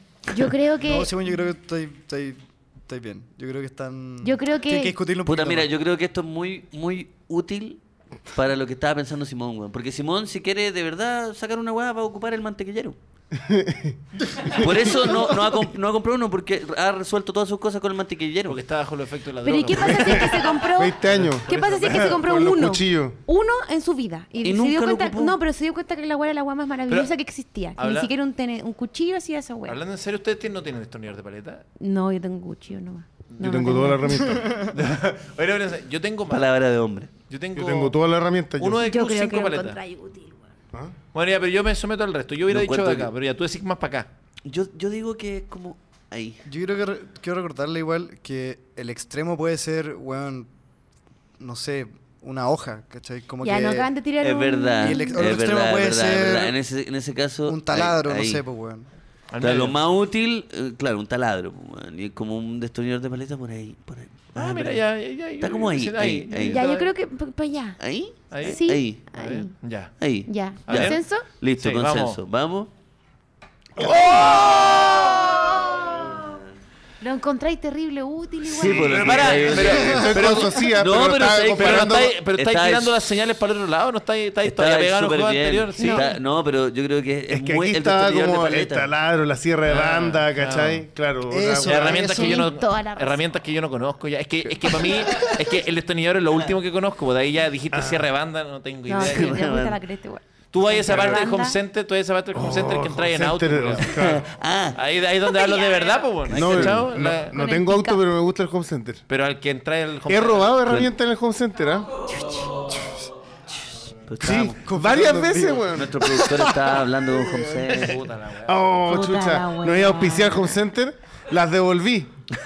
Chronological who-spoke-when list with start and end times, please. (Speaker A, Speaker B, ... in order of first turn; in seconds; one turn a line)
Speaker A: 0.3-1.1
Speaker B: 0.8-5.7
Speaker A: 4.2-5.0
Speaker C: 5.2-7.8
Speaker C: 8.3-13.0
Speaker D: 13.3-14.9
Speaker C: 14.5-18.6
Speaker E: 18.5-22.2
Speaker A: 19.4-29.8
Speaker D: 19.8-23.2
Speaker C: 24.4-25.4
Speaker E: 27.8-28.1
Speaker E: 29.7-31.6
Speaker A: 31.8-34.4
Speaker E: 33.3-33.8
Speaker D: 33.4-34.5
Speaker B: 34.3-34.7
Speaker E: 34.7-36.5
Speaker C: 36.3-37.1
Speaker E: 37.3-38.0
Speaker D: 37.5-38.9
Speaker E: 38.6-39.8
Speaker A: 38.8-40.5
Speaker E: 41.1-44.1
Speaker C: 42.5-43.1
Speaker C: 44.5-46.4
Speaker B: 46.5-50.5
Speaker B: 51.4-53.9
Speaker A: 53.4-55.3
Speaker C: 54.2-58.4
Speaker B: 54.8-56.6
Speaker B: 57.5-58.9
Speaker E: 59.3-59.8
Speaker C: 59.4-64.8
Speaker E: 64.3-66.9
Speaker C: 65.4-66.7
Speaker A: 66.4-67.8
Speaker C: 67.8-69.0
Speaker E: 68.3-69.9
Speaker A: 68.4-69.5
Speaker C: 70.0-72.7
Speaker A: 70.3-71.2
Speaker E: 70.7-71.0
Speaker E: 71.6-72.2
Speaker D: 73.8-74.6
Speaker C: 73.9-76.4
Speaker E: 74.0-75.1
Speaker A: 75.2-76.1
Speaker A: 77.0-79.2
Speaker C: 78.5-83.0
Speaker E: 78.6-80.5
Speaker D: 79.1-82.1
Speaker B: 79.7-80.5
Speaker E: 81.2-86.1
Speaker C: 84.4-88.9
Speaker A: 85.8-86.1
Speaker D: 87.3-92.0
Speaker E: 89.7-90.8
Speaker B: 91.3-92.5
Speaker E: 91.6-99.4
Speaker A: 91.9-93.2
Speaker B: 94.6-95.3
Speaker D: 97.7-98.1
Speaker A: 98.9-101.6
Speaker C: 98.9-99.8
Speaker E: 100.5-104.1
Speaker D: 100.9-101.2
Speaker D: 102.3-104.3
Speaker C: 104.0-104.8
Speaker E: 104.7-107.4
Speaker A: 105.3-106.1
Speaker D: 106.3-109.0
Speaker C: 106.3-106.9
Speaker A: 107.3-108.0
Speaker E: 109.1-110.6
Speaker D: 110.1-111.9
Speaker A: 112.1-112.7
Speaker C: 114.1-114.6
Speaker D: 114.2-116.5
Speaker B: 114.6-115.7
Speaker C: 115.7-118.0
Speaker D: 117.1-122.1
Speaker E: 117.7-118.6
Speaker A: 118.8-120.4